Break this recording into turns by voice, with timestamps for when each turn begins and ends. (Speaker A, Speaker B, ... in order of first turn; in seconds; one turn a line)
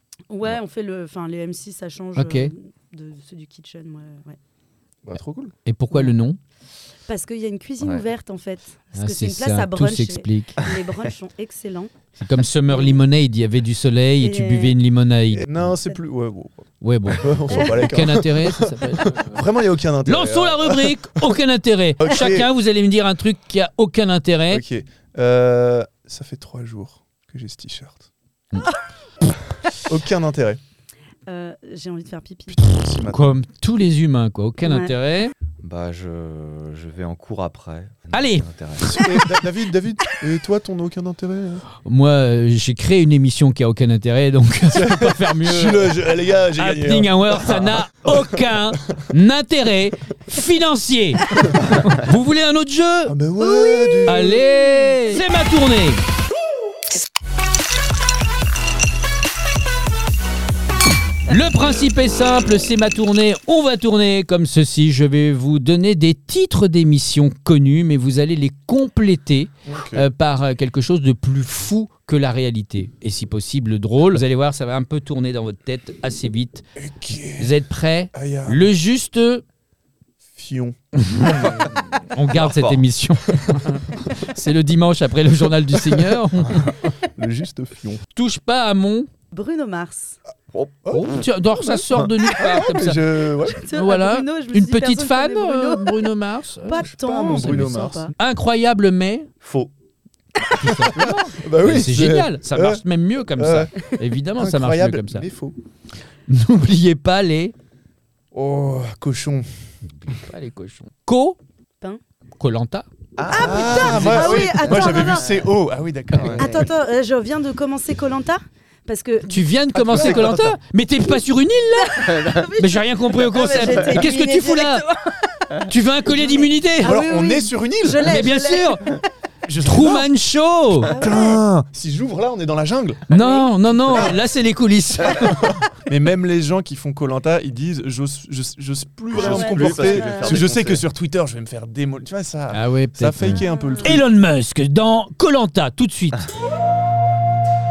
Speaker A: 0.3-4.4
Speaker B: 2.2-2.5
Speaker C: 5.0-5.5
Speaker B: 5.7-6.4
Speaker A: 7.1-11.9
Speaker B: 8.9-10.6
Speaker B: 12.2-15.5
Speaker A: 12.7-13.0
Speaker A: 14.2-14.8
Speaker C: 15.3-21.0
Speaker B: 16.8-19.4
Speaker B: 20.1-24.6
Speaker C: 22.0-22.5
Speaker C: 24.5-28.1
Speaker C: 29.2-30.6
Speaker A: 31.3-32.6
Speaker C: 32.5-33.3
Speaker B: 33.1-35.3
Speaker A: 34.6-34.9
Speaker D: 35.6-39.0
Speaker B: 38.1-39.3
Speaker C: 38.8-41.7
Speaker B: 41.8-46.0
Speaker C: 44.7-48.4
Speaker B: 46.6-53.2
Speaker C: 53.1-54.5
Speaker A: 53.4-55.2
Speaker B: 54.0-56.0
Speaker B: 61.3-76.7
Speaker C: 69.7-70.0
Speaker C: 76.8-77.5
Speaker B: 77.4-79.4
Speaker C: 78.2-78.7
Speaker C: 80.3-81.6
Speaker B: 81.0-86.8
Speaker D: 81.3-81.7
Speaker D: 82.3-82.8
Speaker C: 85.9-88.0
Speaker B: 88.2-89.1
Speaker A: 89.3-90.2
Speaker D: 90.5-90.9
Speaker C: 90.9-93.6
Speaker B: 90.9-96.8
Speaker A: 93.5-96.1
Speaker A: 96.7-98.1
Speaker C: 96.8-98.1
Speaker B: 98.2-99.3
Speaker D: 99.4-99.7
Speaker B: 100.5-105.3
Speaker A: 100.6-100.8
Speaker C: 100.9-102.8
Speaker C: 103.4-105.6
Speaker B: 106.3-107.5
Speaker C: 108.3-109.5
Speaker B: 110.0-111.4
Speaker B: 112.4-112.9
Speaker D: 113.2-115.5
Speaker A: 113.3-115.3
Speaker C: 113.3-116.6
Speaker D: 116.1-116.7
Speaker A: 116.3-119.5
Speaker B: 119.3-124.8
Speaker C: 119.7-120.6
Speaker A: 121.8-129.0
Speaker B: 125.7-127.0
Speaker C: 126.8-128.2
Speaker B: 128.0-128.9
Speaker C: 129.5-130.1
Speaker B: 129.6-130.9
Speaker A: 130.8-131.4
Speaker C: 130.9-133.1
Speaker B: 133.1-135.6
Speaker A: 133.1-134.2
Speaker C: 135.2-144.1
Speaker D: 139.1-140.8
Speaker A: 139.2-140.4
Speaker B: 142.5-146.3
Speaker A: 143.3-144.0